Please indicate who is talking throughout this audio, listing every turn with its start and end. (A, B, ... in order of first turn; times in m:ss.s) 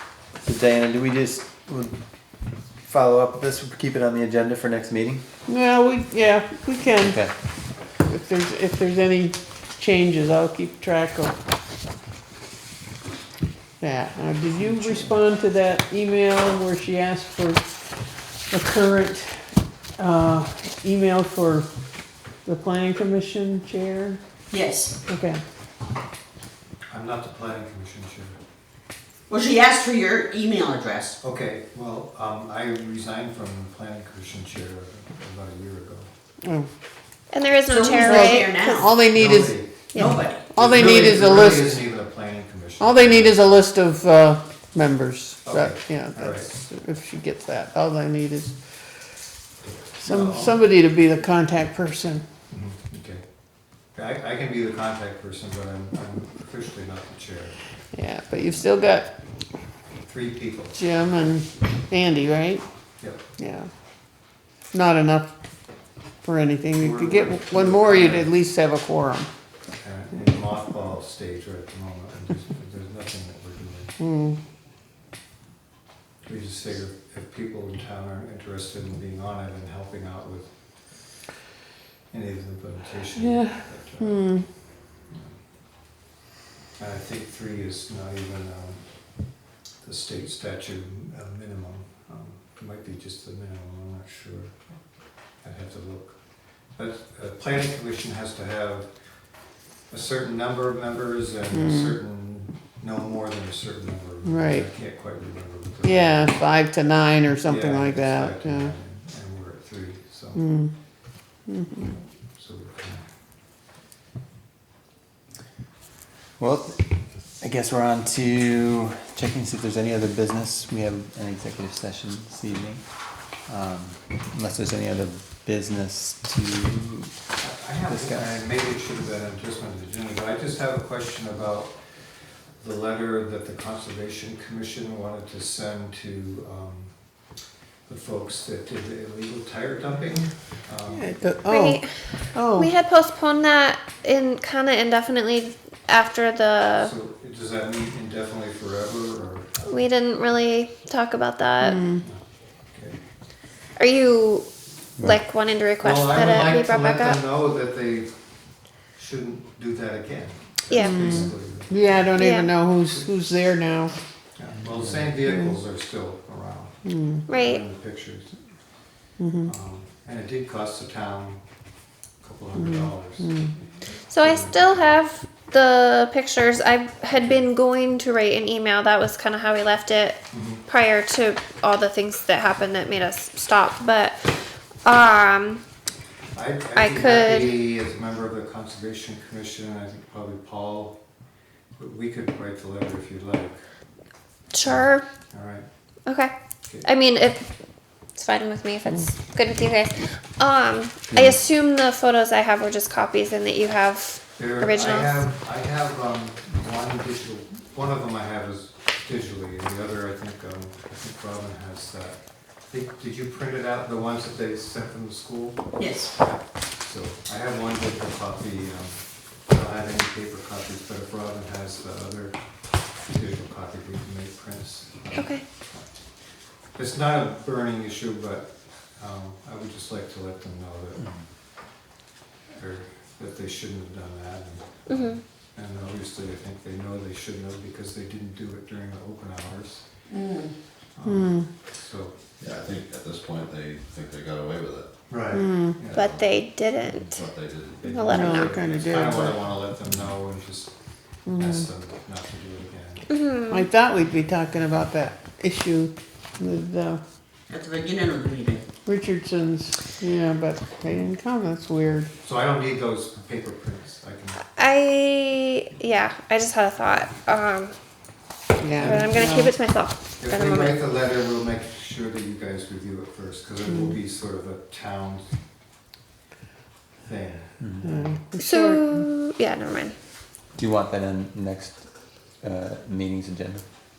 0:00.4-0:02.0 A
0:02.8-0:05.2 A
0:05.5-0:07.2 B
0:07.0-0:07.3 A
0:08.0-0:11.4 B
0:13.8-0:17.7 B
0:18.5-0:21.7 B
0:22.4-0:24.2 B
0:24.5-0:25.0 C
0:25.1-0:25.4 B
0:26.9-0:28.4 D
0:29.3-0:31.2 C
0:31.2-0:36.1 D
0:36.4-0:36.7 B
0:37.3-0:38.6 E
0:37.7-0:38.9 C
0:38.0-0:39.7 B
0:39.0-0:43.7 D
0:39.9-0:40.2 E
0:40.0-0:40.5 C
0:40.5-0:41.9 B
0:42.8-0:48.6 B
0:45.4-0:46.5 D
0:49.6-0:50.6 D
0:50.0-0:52.2 B
0:52.5-0:53.2 D
0:54.0-0:57.6 D
0:57.9-0:59.1 B
1:00.0-1:00.9 D
1:00.7-1:02.6 B
1:03.4-1:03.7 B
1:04.7-1:05.3 B
1:06.2-1:09.3 B
1:06.8-1:08.3 D
1:09.8-1:14.0 D
1:14.0-1:14.4 B
1:16.2-1:20.5 D
1:22.1-1:24.3 D
1:23.2-1:24.5 B
1:25.1-1:25.4 D
1:26.8-1:28.8 D
1:29.8-1:34.5 D
1:35.4-1:36.2 D
1:36.8-1:38.9 D
1:39.9-1:46.3 D
1:41.5-1:42.0 B
1:44.3-1:44.7 B
1:45.8-1:48.7 B
1:47.4-1:50.4 D
1:50.3-1:50.7 B
1:51.5-1:52.0 B
1:52.4-1:53.0 D
1:56.4-1:56.8 A
1:57.4-2:02.8 A
2:03.5-2:07.1 A
2:07.4-2:11.7 D
2:07.9-2:08.3 A
2:12.6-2:16.9 D
2:17.9-2:21.1 D
2:20.9-2:22.7 B
2:21.5-2:26.9 E
2:26.8-2:29.8 D
2:29.7-2:31.8 E
2:31.6-2:32.0 B
2:32.7-2:33.0 D
2:33.8-2:34.5 E
2:35.0-2:37.2 E
2:35.8-2:38.1 D
2:38.9-2:42.1 D
2:40.7-2:41.1 E
2:40.8-2:43.9 B
2:42.2-2:42.5 E
2:44.4-2:46.7 D
2:45.3-2:45.6 B
2:46.8-2:47.2 B
2:47.3-2:47.6 E
2:47.3-2:48.3 D
2:49.2-2:49.5 B
2:49.4-2:51.4 D
2:52.2-2:53.4 D
2:52.6-2:53.5 B
2:54.1-3:04.2 E
2:54.2-2:55.0 D
2:57.2-2:57.4 D
3:00.3-3:00.6 D
3:04.8-3:05.6 E
3:06.3-3:11.0 D
3:06.8-3:07.6 E
3:11.8-3:13.6 D
3:14.5-3:15.0 E
3:14.6-3:15.7 D
3:16.1-3:16.3 E
3:16.8-3:17.4 E
3:18.2-3:25.2 E
3:24.4-3:32.2 D
3:32.7-3:35.7 D
3:35.8-3:36.1 C
3:36.2-3:42.4 D
3:43.0-3:45.9 D
3:45.1-3:45.4 E
3:46.8-3:51.1 D
3:52.5-3:59.8 D
3:54.9-3:55.2 E
4:00.1-4:00.5 C
4:01.0-4:02.2 D
4:01.1-4:01.5 B
4:02.4-4:04.9 F
4:05.1-4:06.0 D
4:05.3-4:05.8 B
4:05.9-4:08.7 F
4:05.9-4:07.2 E
4:07.8-4:08.6 E
4:08.0-4:10.7 D
4:08.1-4:09.4 B
4:11.2-4:11.6 B
4:11.3-4:13.1 D
4:13.1-4:13.7 E
4:13.5-4:17.0 B
4:17.5-4:18.6 C
4:18.8-4:22.1 B
4:22.2-4:24.4 D
4:24.6-4:27.8 E
4:28.6-4:29.5 B
4:28.8-4:30.8 E
4:28.8-4:29.4 D
4:30.2-4:35.3 D
4:37.0-4:38.0 D
4:37.8-4:39.1 B
4:38.4-4:39.9 E
4:40.6-4:41.9 A
4:42.4-4:43.6 A